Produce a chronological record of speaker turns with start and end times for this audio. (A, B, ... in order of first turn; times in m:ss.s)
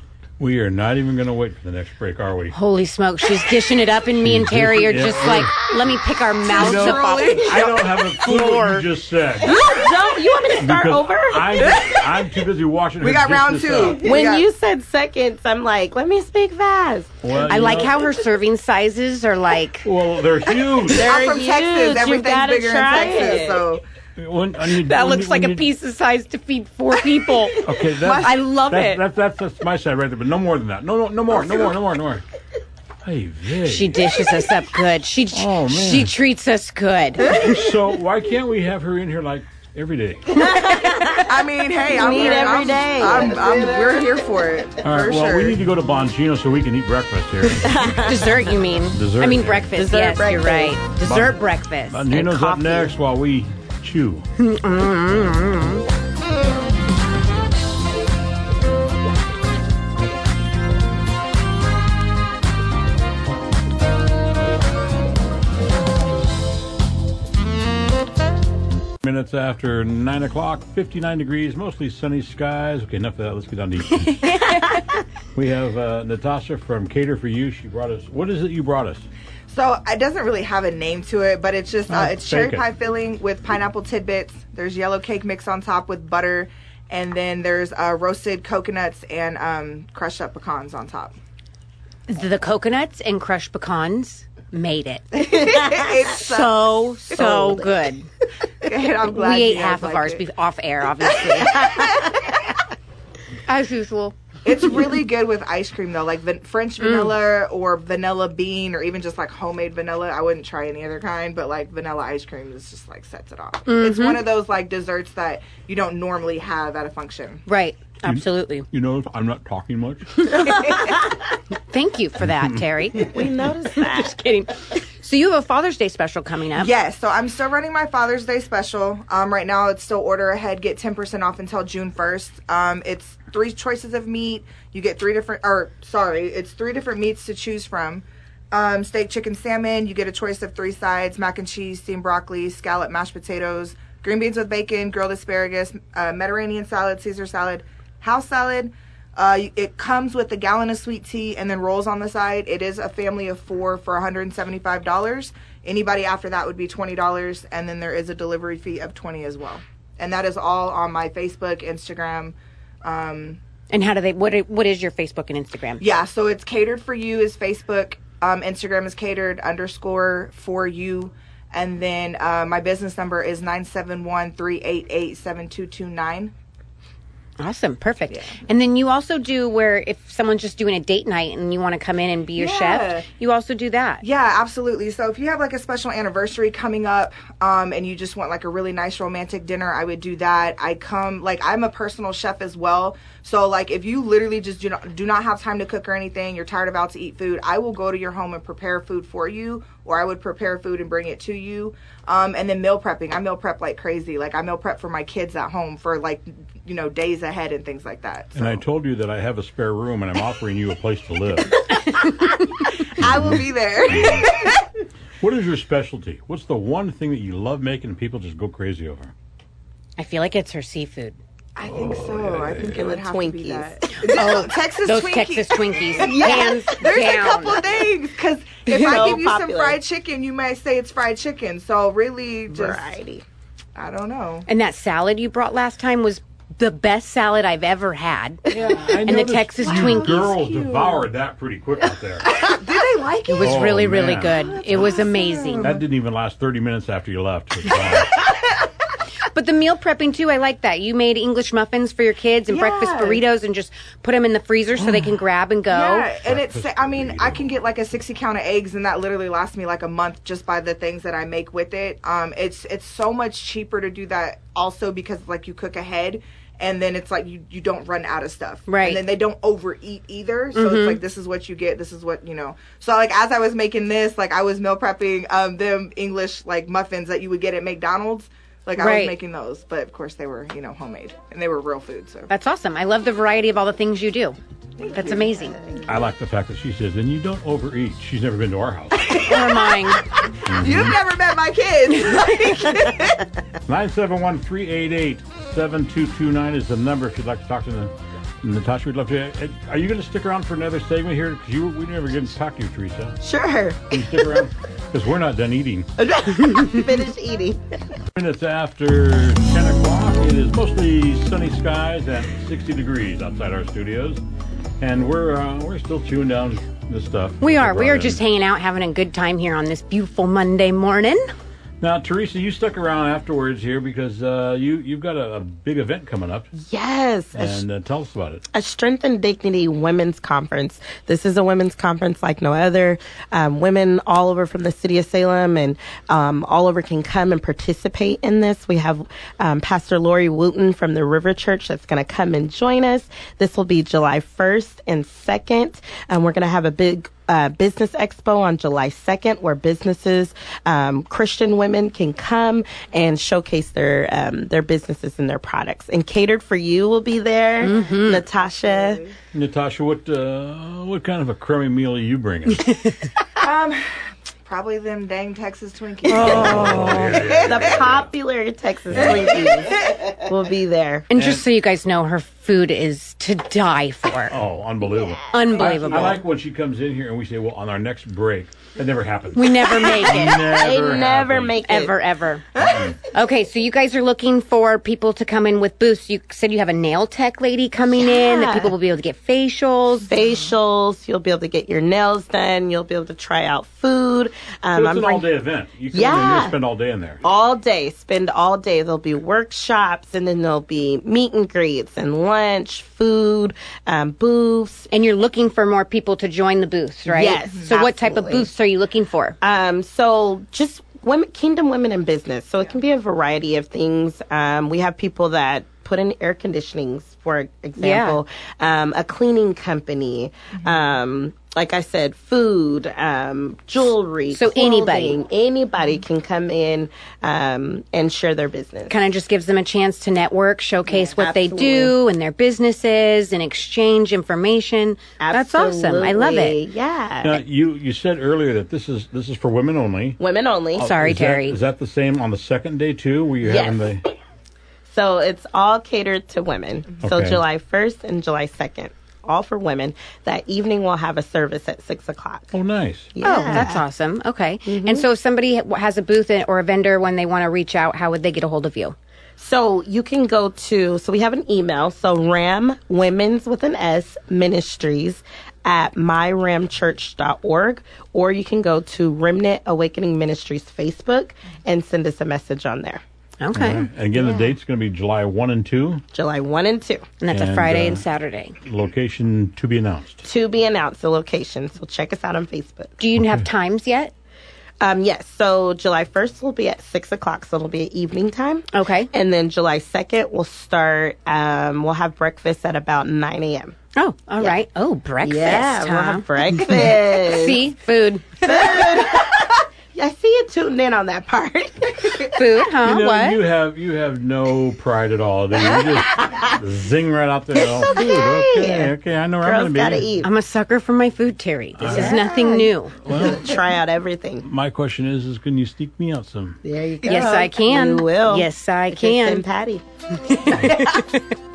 0:00.4-0:02.6 A
0:02.5-0:08.9 B
0:04.2-0:05.7 A
0:06.4-0:08.1 C
0:06.5-0:09.6 A
0:09.4-0:11.8 D
0:10.6-0:14.2 A
0:13.0-0:14.5 C
0:14.0-0:17.1 D
0:17.2-0:18.0 A
0:17.4-0:19.9 B
0:19.8-0:21.1 A
0:20.9-0:23.7 D
0:20.9-0:23.8 C
0:24.2-0:25.7 A
0:24.6-0:27.6 B
0:27.6-0:32.2 A
0:27.9-0:28.4 C
0:28.2-0:29.0 B
0:33.0-0:34.2 A
0:33.6-0:37.8 B
0:35.3-0:36.1 A
0:37.2-0:40.5 A
0:40.4-0:41.3 D
0:41.2-0:45.6 C
0:41.9-0:44.1 D
0:44.8-0:48.2 A
0:47.4-0:48.6 D
0:48.0-0:52.3 B
0:48.9-0:49.8 A
0:49.8-0:50.8 D
0:51.0-0:54.3 A
0:52.1-0:52.9 D
0:54.4-0:55.8 B
1:09.0-1:14.6 A
1:14.1-1:14.9 B
1:15.4-1:19.1 A
1:19.5-1:31.2 C
1:21.9-1:22.7 A
1:32.1-1:38.1 B
1:35.2-1:37.6 C
1:37.2-1:37.7 D
1:38.6-1:40.2 C
1:39.2-1:42.0 B
1:41.2-1:42.5 C
1:43.5-1:44.2 B
1:44.4-1:57.4 C
1:46.8-1:47.2 B
1:53.7-1:54.2 B
1:57.5-1:58.7 B
1:58.0-2:00.5 A
2:00.3-2:06.7 B
2:00.5-2:00.9 C
2:02.2-2:03.1 A
2:03.1-2:04.2 D
2:06.6-2:43.4 C
2:43.7-2:45.8 B
2:45.8-2:56.3 C
2:57.4-3:04.0 B
2:58.1-2:58.4 C
3:02.4-3:03.1 C
3:04.0-3:28.6 C
3:28.4-3:31.6 A
3:31.8-3:32.7 B
3:32.7-3:34.6 C
3:33.0-3:34.3 A
3:35.2-3:39.1 A
3:40.0-3:41.2 B
3:41.6-3:53.0 C
3:41.7-3:42.8 A
3:42.6-3:43.8 D
3:44.0-3:47.6 B
3:46.0-3:47.0 D
3:48.7-3:49.8 D
3:52.5-3:53.2 D
3:53.8-3:54.5 C
3:54.5-3:58.4 B
3:58.5-3:59.0 C
3:58.5-4:02.3 A
3:59.0-4:00.3 B
3:59.6-4:01.1 C
4:02.2-4:05.8 C
4:03.3-4:05.8 B
4:03.4-4:04.3 A
4:05.6-4:08.2 A
4:07.7-4:08.7 C
4:09.2-4:16.1 B
4:12.5-4:13.2 C
4:15.7-4:42.3 C
4:16.2-4:17.5 A
4:28.7-4:29.0 B
4:30.5-4:31.0 B
4:38.8-4:39.2 B
4:42.3-4:45.6 B
4:45.8-4:49.4 A
4:49.2-4:50.0 B
4:49.3-4:49.6 C
4:50.4-4:51.0 A
4:50.5-4:53.3 C
4:53.6-5:03.2 A
5:03.2-5:04.5 D
5:03.9-5:05.9 A
5:06.0-5:07.6 D
5:08.1-5:14.2 A
5:14.8-5:18.2 A
5:17.4-5:21.2 B
5:21.8-5:26.5 A
5:26.7-5:27.6 D
5:27.3-5:28.4 A
5:28.5-5:59.0 D
5:57.6-5:58.3 B
5:57.7-5:59.1 C
5:59.3-6:02.7 A
6:02.7-6:03.1 B
6:03.4-6:03.9 C
6:04.4-6:07.6 C
6:06.1-6:07.3 B
6:06.1-6:11.1 D
6:06.1-6:08.1 A
6:08.9-6:09.3 A
6:09.1-6:10.0 C
6:11.1-6:14.4 B
6:11.2-6:11.4 A
6:14.3-6:21.6 A
6:15.0-6:16.2 D
6:15.3-6:16.2 B
6:19.3-6:20.5 B
6:20.4-6:22.0 D
6:21.6-6:30.1 B
6:22.6-6:23.0 A
6:22.6-6:23.0 C
6:27.9-6:28.8 D
6:30.1-6:35.3 D
6:34.7-6:37.2 A
6:35.9-6:36.6 D
6:37.2-6:44.9 D
6:44.9-6:49.4 B
6:47.1-6:48.5 D
6:49.4-7:09.0 D
6:57.8-6:58.2 B
7:04.3-7:05.2 B
7:08.9-7:16.6 B
7:10.9-7:12.0 D
7:15.2-7:17.4 D
7:17.2-7:20.2 A
7:20.2-7:20.9 D
7:20.8-7:24.0 A
7:20.8-7:21.6 B
7:23.4-7:24.0 D
7:24.9-7:32.6 D
7:27.0-7:27.4 A
7:32.5-7:33.7 A
7:33.2-7:33.8 D
7:33.2-7:39.0 B
7:34.7-7:35.1 D
7:39.4-7:53.0 D
7:53.4-7:53.9 B
7:53.5-7:56.0 A
7:54.2-7:54.5 D
7:56.1-7:57.1 D
7:57.2-7:58.6 B
7:57.3-7:58.0 A
7:58.6-8:00.2 A
8:00.2-8:02.9 D
8:03.0-8:04.1 B
8:03.1-8:03.5 A
8:04.8-8:13.8 D
8:08.7-8:09.1 B
8:14.0-8:19.0 B
8:15.2-8:17.6 D
8:18.4-8:22.5 D
8:22.3-8:23.4 B
8:22.8-8:30.1 A
8:25.8-8:26.5 D
8:27.6-8:30.3 D
8:30.2-8:33.1 B
8:31.8-8:32.3 A
8:31.8-8:34.5 D
8:33.0-8:33.6 A
8:34.4-8:36.6 A
8:36.6-8:39.8 D
8:37.0-8:39.4 B
8:40.2-8:41.2 B
8:40.5-8:40.8 A